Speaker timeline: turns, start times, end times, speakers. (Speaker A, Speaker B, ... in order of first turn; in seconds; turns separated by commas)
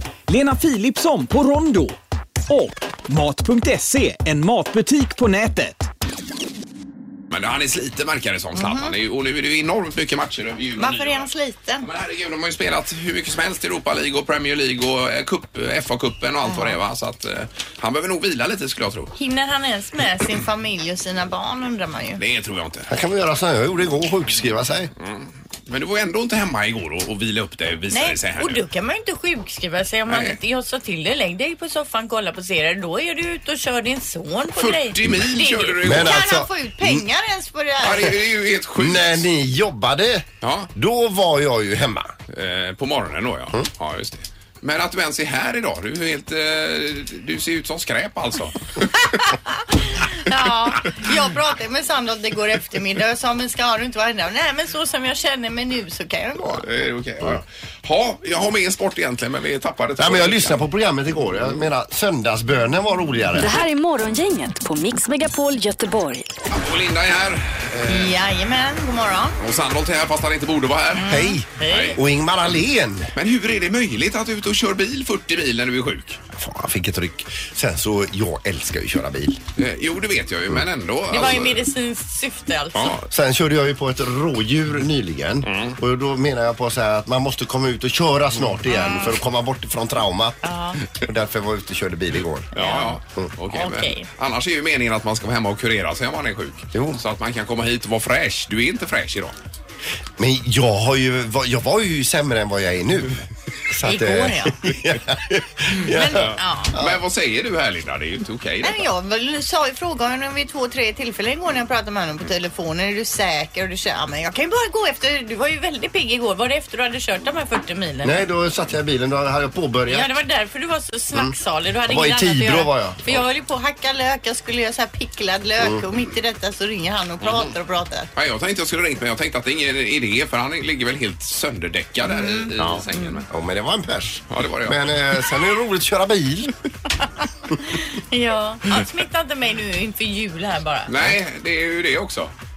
Speaker A: 0.3-1.9, Speaker A: 2.5-5.9, Speaker B: 7.3-11.3, Speaker C: 8.5-8.9, Speaker C: 10.8-11.8, Speaker B: 11.8-19.1, Speaker C: 16.4-16.8, Speaker C: 19.1-22.2, Speaker B: 22.2-22.9, Speaker D: 22.9-24.9, Speaker B: 25.0-28.6, Speaker C: 27.9-38.2, Speaker B: 30.1-30.4, Speaker B: 34.5-36.3, Speaker D: 35.8-37.0, Speaker B: 37.8-39.2, Speaker D: 38.8-42.1, Speaker B: 40.4-40.7, Speaker B: 42.3-48.6, Speaker C: 49.3-56.6, Speaker B: 56.4-60.6, Speaker D: 60.0-63.6, Speaker E: 63.4-66.3, Speaker B: 66.5-68.1, Speaker C: 67.9-69.4, Speaker B: 69.4-71.1, Speaker C: 70.9-72.0, Speaker D: 71.0-73.1, Speaker B: 71.7-72.0, Speaker B: 73.1-76.2, Speaker D: 76.3-79.4, Speaker B: 79.5-81.7, Speaker C: 81.1-83.0, Speaker B: 82.7-83.0, Speaker D: 83.1-92.5, Speaker B: 85.4-85.8, Speaker C: 88.7-89.2, Speaker C: 90.4-90.8, Speaker B: 92.5-99.3, Speaker C: 92.5-93.0, Speaker C: 93.5-94.0, Speaker D: 96.7-97.0, Speaker D: 100.2-106.9, Speaker C: 103.8-104.7, Speaker C: 105.9-106.8, Speaker B: 106.2-108.9, Speaker C: 108.6-118.2, Speaker D: 118.0-120.1, Speaker C: 119.9-128.1, Speaker D: 121.9-123.2, Speaker D: 125.6-125.8, Speaker B: 127.2-127.5, Speaker B: 128.1-133.3, Speaker C: 132.0-133.2, Speaker D: 132.6-136.5, Speaker B: 134.3-134.8, Speaker C: 137.6-141.2, Speaker B: 140.9-142.3